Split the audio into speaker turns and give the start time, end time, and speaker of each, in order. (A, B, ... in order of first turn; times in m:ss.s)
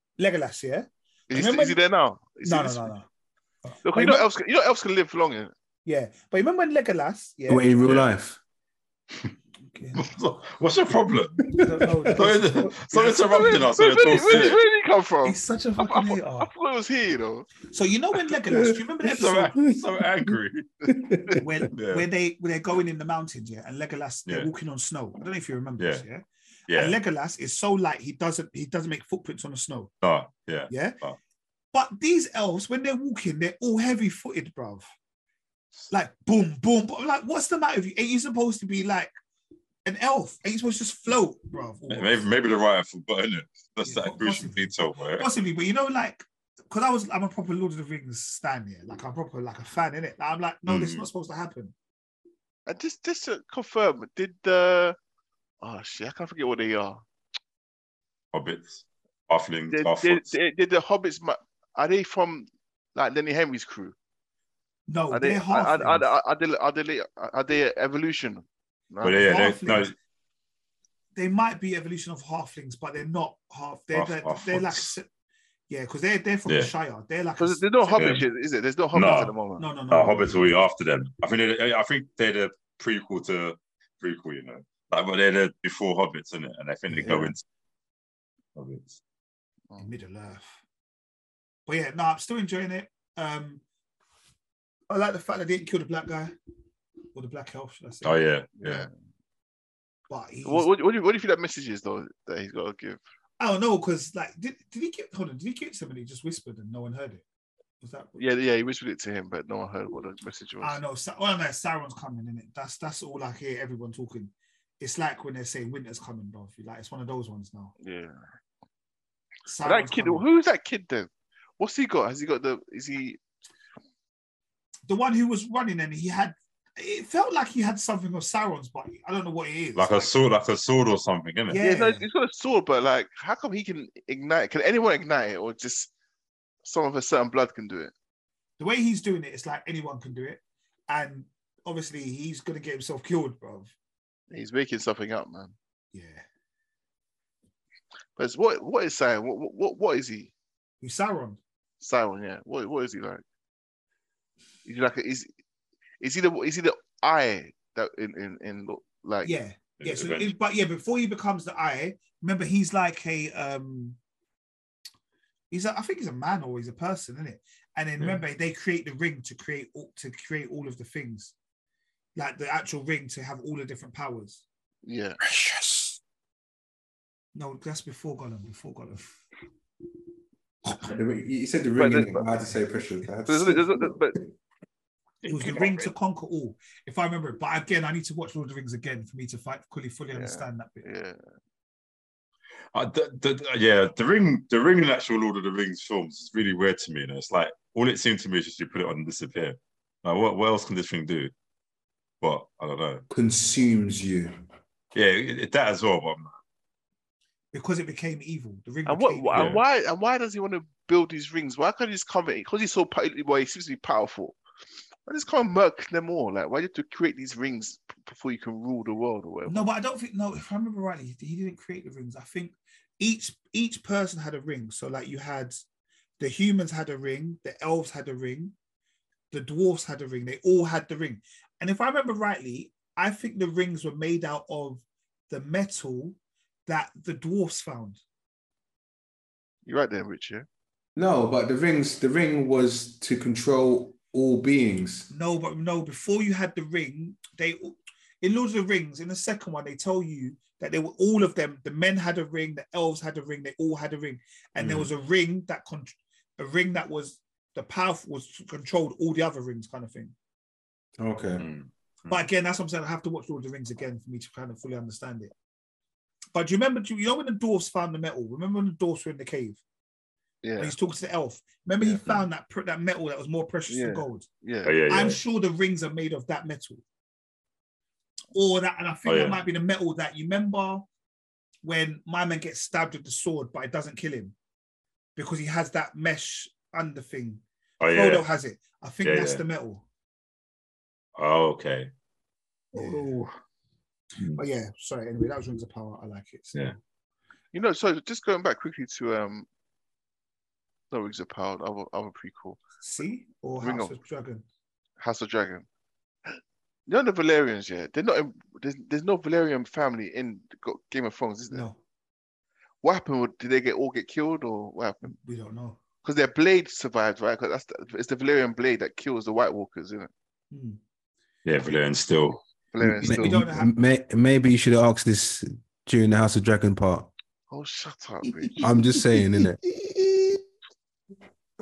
0:00.2-0:01.8 A
0:01.3-0:02.9 B
0:02.4-0:03.1 A
0:03.7-0:04.3 A
0:03.8-0:05.5 B
0:05.9-0:07.8 A
0:07.5-0:08.4 C
0:07.8-0:08.1 D
0:09.7-0:10.1 A
0:10.0-0:11.5 D
0:11.5-0:12.1 C
0:11.5-0:14.5 A
0:12.1-0:14.6 D
0:13.3-0:17.5 B
0:15.2-0:16.5 A
0:17.7-0:19.6 A
0:19.0-0:20.7 D
0:20.9-0:21.4 C
0:21.4-0:29.9 A
0:21.7-0:22.1 D
0:25.8-0:26.0 D
0:26.7-0:27.0 D
0:30.0-0:31.2 D
0:30.7-0:31.0 A
0:31.7-0:34.9 A
0:35.9-0:39.1 A
0:39.8-0:42.2 A
0:41.9-0:45.3 D
0:43.8-0:51.7 A
0:50.7-0:51.1 D
0:52.7-0:55.0 B
0:55.6-0:57.0 B
0:58.3-1:00.3 D
0:59.7-1:04.0 B
1:04.9-1:06.1 A
1:05.1-1:09.3 B
1:09.0-1:09.9 D
1:09.0-1:09.9 A
1:11.2-1:15.1 A
1:13.9-1:14.9 D
1:15.7-1:18.2 A
1:17.4-1:19.7 B
1:18.0-1:18.2 D
1:18.9-1:19.4 D
1:19.6-1:20.6 A
1:19.9-1:27.4 D
1:26.9-1:27.3 A
1:28.6-1:29.0 D
1:29.8-1:30.6 A
1:31.7-1:33.6 A
1:34.9-1:36.3 A
1:37.1-1:38.2 A
1:38.0-1:38.9 D
1:38.6-1:38.9 B
1:40.1-1:40.7 A
1:40.4-1:43.0 B
1:43.4-1:47.2 A
1:47.8-1:48.2 A
1:48.2-1:50.8 B
1:50.6-1:57.7 A
1:57.8-1:58.2 B
1:59.5-2:00.2 A
1:59.6-2:03.2 B
2:04.9-2:10.1 A
2:09.8-2:11.6 D
2:11.5-2:12.1 A
2:11.6-2:15.9 B
2:16.6-2:17.9 B
2:18.6-2:23.7 A
2:24.3-2:25.6 B
2:25.9-2:26.2 A
2:28.2-2:30.3 B
2:30.8-2:31.4 A
2:31.8-2:33.2 B
2:34.6-2:35.3 B
2:36.0-2:39.3 B
2:39.2-2:44.0 A
2:39.8-2:40.3 D
2:45.5-2:51.4 A
2:52.2-2:54.4 A
2:54.8-2:55.2 B
2:55.2-2:56.0 C
2:57.4-2:59.2 A
3:00.6-3:04.1 C
3:01.8-3:02.3 B
3:03.3-3:04.2 B
3:05.2-3:10.9 A
3:10.2-3:11.2 B
3:12.7-3:21.3 D
3:22.2-3:23.0 D
3:23.1-3:24.3 C
3:24.9-3:26.3 D
3:27.5-3:29.6 A
3:28.9-3:34.4 B
3:29.3-3:29.6 D
3:35.1-3:39.7 B
3:39.5-3:45.6 A
3:46.2-3:48.5 A
3:49.3-3:58.0 A
3:59.7-4:00.5 B
4:01.0-4:05.1 C
4:05.1-4:20.2 A
4:14.6-4:14.9 C
4:21.0-4:21.5 C
4:21.4-4:22.2 D
4:22.1-4:25.3 A
4:26.3-4:29.6 A
4:30.4-4:30.8 B
4:30.6-4:34.3 A
4:33.7-4:34.8 B
4:34.6-4:35.2 D
4:34.9-4:36.8 A
4:38.3-4:40.9 A
4:39.0-4:39.4 D
4:41.6-4:44.4 A
4:45.2-4:49.8 A
4:47.8-4:48.3 D
4:49.0-4:49.4 D
4:51.2-4:51.9 D
4:52.7-4:53.2 A
4:52.8-4:53.3 D
4:54.4-4:56.5 A
4:57.5-4:59.5 B
5:00.9-5:02.6 B
5:02.8-5:04.4 A
5:03.6-5:03.9 B
5:05.0-5:05.7 B
5:06.9-5:11.7 B
5:11.5-5:11.8 A
5:12.8-5:15.1 B
5:15.1-5:15.8 A
5:16.0-5:20.1 B
5:20.5-5:20.8 A
5:21.4-5:22.4 D
5:22.7-5:23.4 B
5:22.8-5:27.1 C
5:23.0-5:23.7 A
5:27.5-5:28.7 B
5:28.3-5:30.4 A
5:28.6-5:29.6 C